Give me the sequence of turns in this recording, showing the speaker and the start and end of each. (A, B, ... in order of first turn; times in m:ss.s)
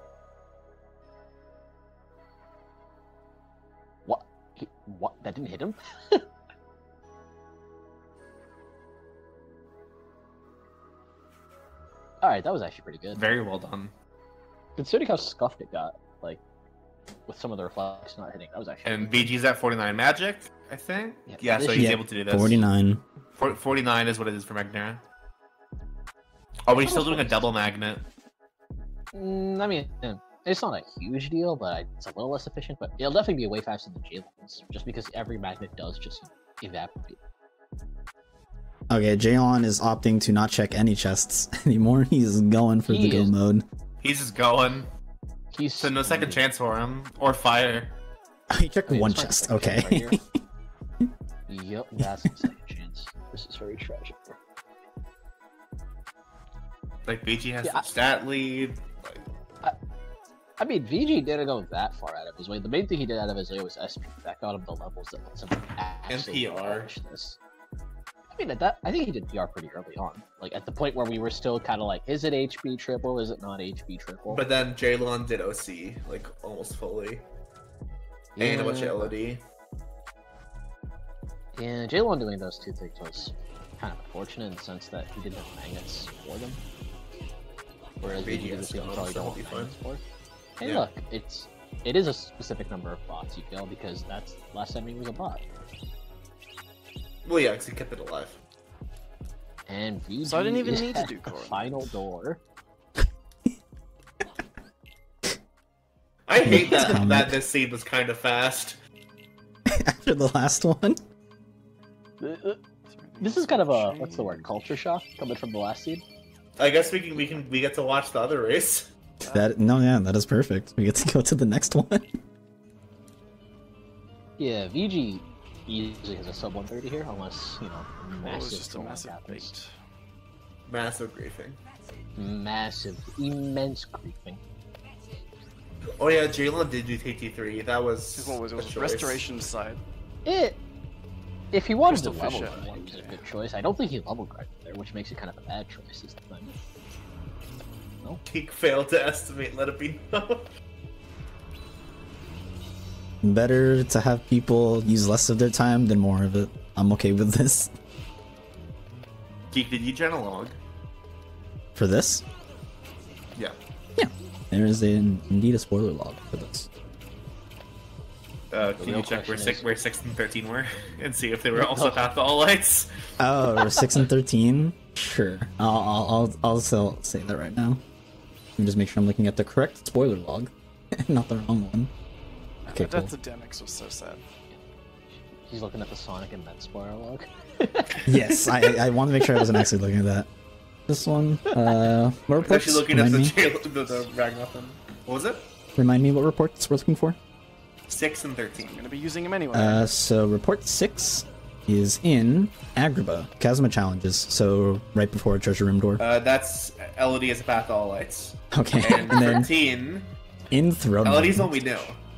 0:04.1-0:06.3 A
0:12.2-0:13.2 A
0:13.1-0:13.9 B
0:14.8-0:16.4 A
0:17.3-0:19.3 A
0:18.8-0:22.7 B
0:21.3-0:22.0 A
0:21.8-0:23.0 C
0:23.4-0:25.0 B
0:26.7-0:28.0 B
0:26.7-0:27.5 A
0:29.1-0:37.2 A
0:38.9-0:43.7 C
0:42.8-0:43.3 A
0:44.0-0:44.9 B
0:45.5-0:46.4 A
0:45.8-0:48.0 B
0:48.5-0:50.4 C
0:48.9-0:50.2 A
0:51.5-0:54.4 A
0:52.0-0:52.4 C
0:57.1-0:59.2 B
1:00.6-1:07.4 A
1:06.1-1:06.9 B
1:08.3-1:14.4 A
1:14.3-1:17.3 B
1:18.4-1:19.2 A
1:18.4-1:19.4 B
1:21.6-1:26.6 A
1:28.0-1:30.0 A
1:28.0-1:29.8 B
1:30.6-1:35.4 A
1:37.2-1:38.4 B
1:39.7-1:42.4 A
1:40.2-1:41.9 D
1:46.3-1:48.8 B
1:46.4-1:47.4 C
1:46.5-1:46.9 A
1:49.7-1:51.0 C
1:52.2-1:52.6 A
1:52.9-1:54.7 D
1:53.2-1:56.0 A
1:56.6-1:58.9 B
1:59.2-1:59.6 D
1:59.3-2:02.2 C
2:04.4-2:09.6 A
2:08.1-2:09.8 D
2:10.7-2:11.6 B
2:12.2-2:14.4 A
2:16.0-2:19.2 B
2:18.2-2:19.8 D
2:20.3-2:20.6 A
2:21.5-2:26.5 A
2:21.8-2:23.3 D
2:28.2-2:30.5 B
2:33.2-2:37.7 C
2:39.5-2:40.6 B
2:41.8-2:42.2 C
2:44.0-2:46.7 C
2:48.5-2:52.9 B
2:48.8-2:49.7 A
2:51.5-2:52.0 A
2:53.2-2:57.8 C
2:58.6-3:01.9 C
3:02.7-3:04.2 D
3:02.7-3:03.1 C
3:05.3-3:08.4 A
3:08.1-3:10.3 C
3:09.2-3:09.6 A
3:10.9-3:13.4 C
3:12.4-3:15.5 B
3:15.8-3:17.2 C
3:17.9-3:18.9 B
3:18.6-3:19.9 D
3:19.5-3:26.0 C
3:26.0-3:30.1 B
3:28.5-3:29.5 C
3:30.5-3:31.9 C
3:31.0-3:32.0 B